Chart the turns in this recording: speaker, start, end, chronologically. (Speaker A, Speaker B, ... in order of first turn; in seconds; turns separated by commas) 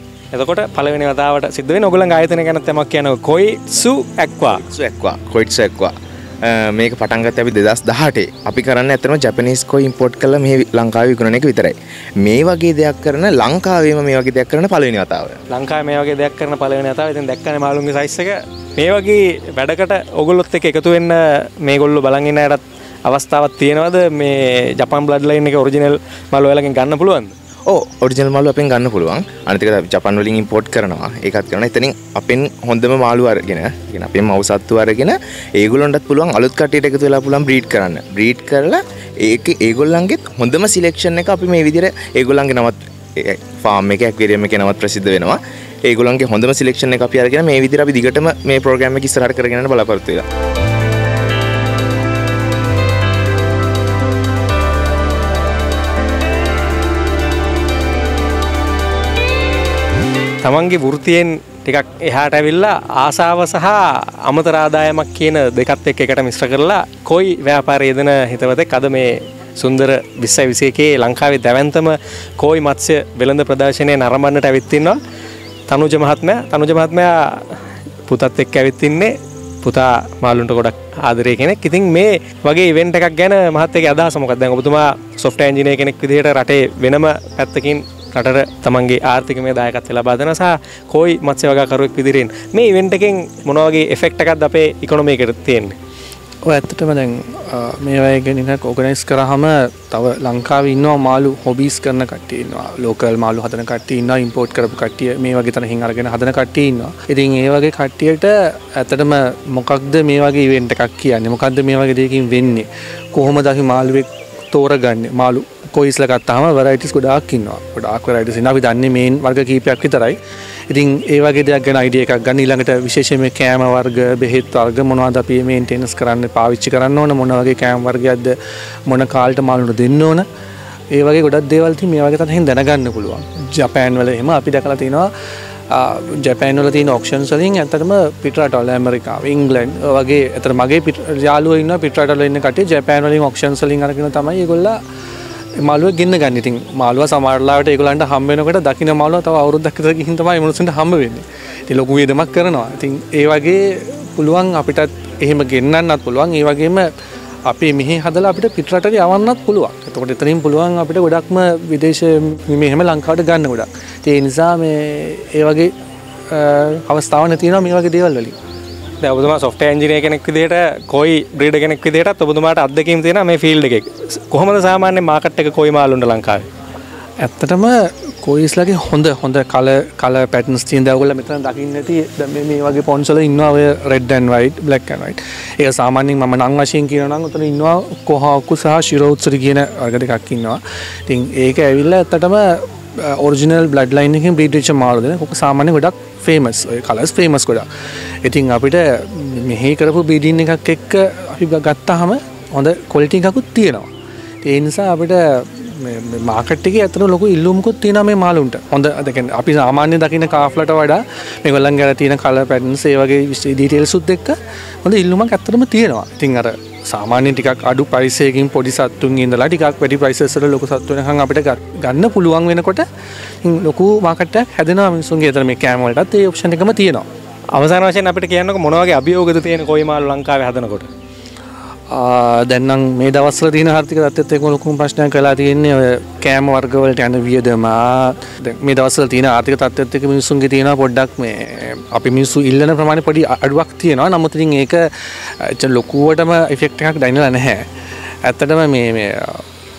Speaker A: 0.3-4.6, Speaker B: 4.5-15.4, Speaker A: 15.5-27.3, Speaker B: 27.7-50.3, Speaker A: 60.4-75.0, Speaker A: 75.7-77.6, Speaker A: 78.1-95.8, Speaker C: 96.4-120.2, Speaker C: 120.7-130.3, Speaker C: 130.9-135.1, Speaker C: 135.7-144.8, Speaker C: 145.6-156.9, Speaker C: 157.4-165.7, Speaker C: 166.3-168.3, Speaker A: 169.0-176.4, Speaker C: 177.2-197.7, Speaker C: 198.2-203.9, Speaker C: 204.4-222.9, Speaker C: 223.4-227.1, Speaker A: 227.5-230.9, Speaker C: 231.9-247.7, Speaker C: 248.2-249.4